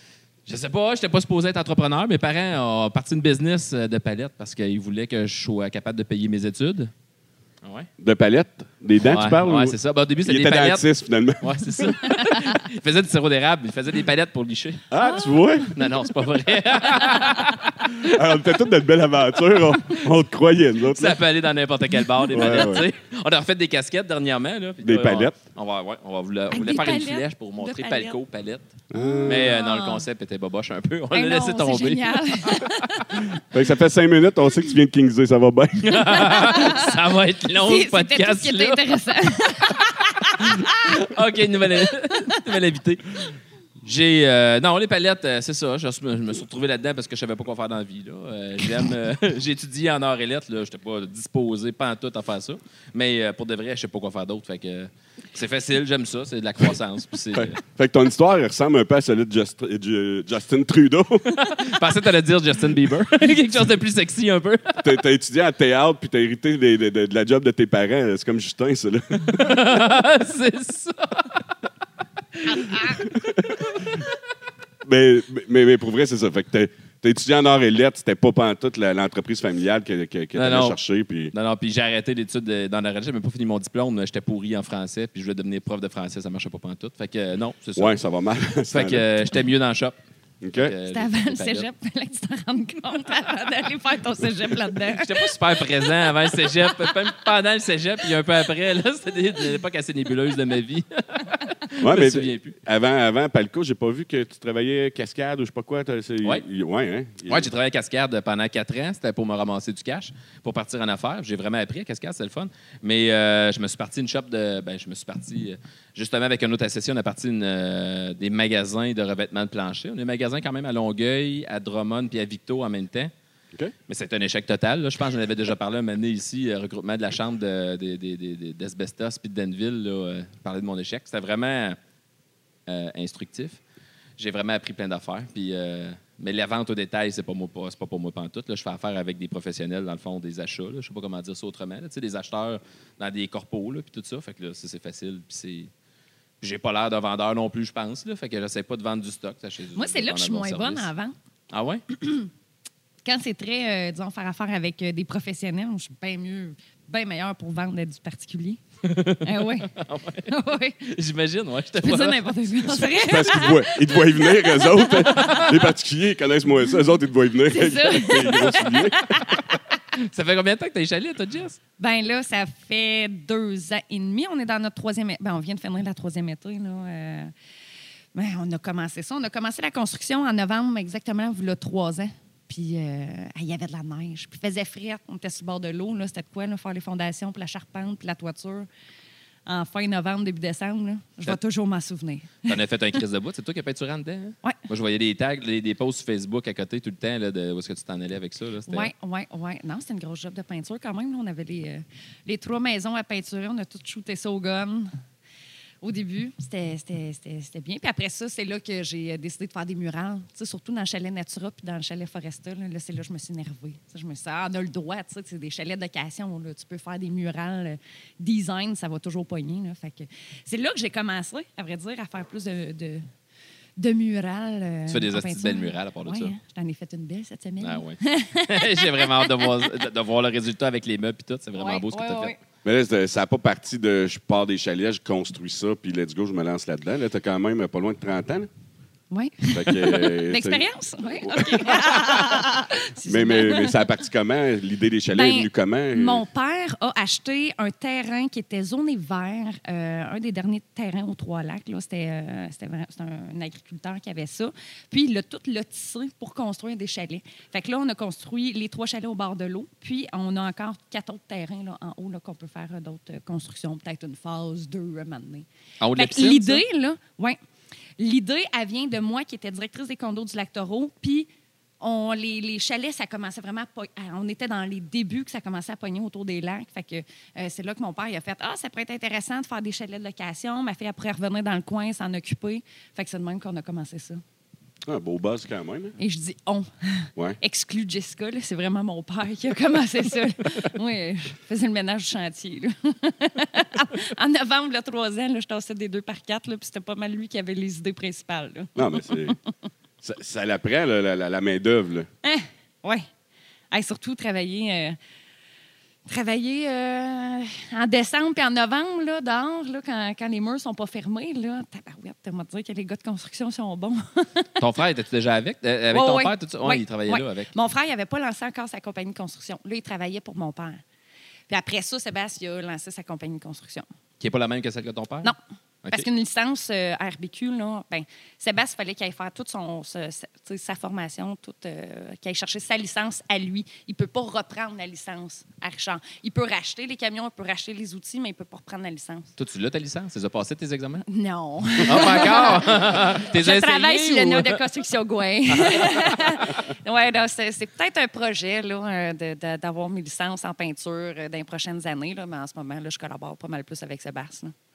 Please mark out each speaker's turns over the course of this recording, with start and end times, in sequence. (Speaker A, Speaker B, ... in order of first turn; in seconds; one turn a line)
Speaker A: 0.5-6.9
Speaker A: 7.6-7.9
Speaker B: 8.0-11.8
Speaker A: 9.1-10.8
Speaker A: 11.4-14.8
Speaker C: 11.9-12.6
Speaker B: 14.9-15.7
Speaker C: 15.0-16.0
Speaker A: 15.7-18.1
Speaker C: 16.9-17.6
Speaker B: 17.9-21.2
Speaker A: 20.9-28.7
Speaker B: 22.3-22.9
Speaker B: 24.8-25.3
Speaker C: 26.5-28.2
Speaker B: 28.9-29.6
Speaker C: 28.9-30.1
Speaker A: 29.2-32.7
Speaker C: 31.1-33.2
Speaker B: 33.4-36.4
Speaker A: 35.8-43.2
Speaker C: 36.1-36.9
Speaker C: 37.5-40.9
Speaker A: 43.8-57.6
Speaker B: 57.3-61.6
Speaker A: 61.4-65.0
Speaker B: 64.8-69.5
Speaker A: 69.2-71.4
Speaker A: 72.3-73.1
Speaker B: 72.8-73.6
Speaker B: 74.8-81.3
Speaker A: 80.3-80.8
Speaker A: 81.3-87.9
Speaker B: 87.8-89.0
Speaker A: 88.7-90.0
Speaker B: 90.4-90.7
Speaker A: 90.5-91.7
Speaker C: 90.9-95.3
Speaker A: 94.9-102.5
Speaker B: 101.8-107.5
Speaker A: 107.3-123.1
Speaker A: 123.9-131.8
Speaker A: 132.7-133.6
Speaker A: 134.2-145.7
Speaker A: 146.4-150.9
Speaker C: 149.7-151.1
Speaker A: 151.5-151.8
Speaker C: 151.9-152.3
Speaker C: 153.0-158.6
Speaker A: 158.8-163.0
Speaker C: 159.2-159.7
Speaker C: 160.3-160.9
Speaker C: 161.8-165.4
Speaker B: 163.0-169.1
Speaker A: 165.0-165.6
Speaker C: 167.5-169.6
Speaker A: 169.9-171.6
Speaker C: 171.8-177.3
Speaker C: 178.1-188.7
Speaker C: 189.4-192.6
Speaker A: 192.4-198.9
Speaker C: 198.7-204.9
Speaker C: 205.8-223.1
Speaker C: 223.8-229.5
Speaker A: 224.9-226.3
Speaker A: 227.6-232.3
Speaker C: 231.6-232.4
Speaker B: 232.6-238.5
Speaker C: 239.1-243.8
Speaker B: 239.5-242.4
Speaker B: 243.1-246.2
Speaker C: 245.1-267.4
Speaker A: 265.8-266.6
Speaker C: 268.0-271.3
Speaker C: 271.8-284.2
Speaker B: 284.8-286.0
Speaker C: 286.0-299.4
Speaker B: 298.8-299.4
Speaker B: 300.0-302.1
Speaker C: 302.2-303.1
Speaker C: 303.7-305.0
Speaker C: 306.1-314.6
Speaker A: 314.6-317.5
Speaker C: 315.9-320.8
Speaker C: 321.5-323.9
Speaker A: 324.2-326.1
Speaker C: 325.9-339.3
Speaker A: 339.4-341.1
Speaker C: 341.1-354.5
Speaker A: 341.8-344.6
Speaker A: 345.6-346.4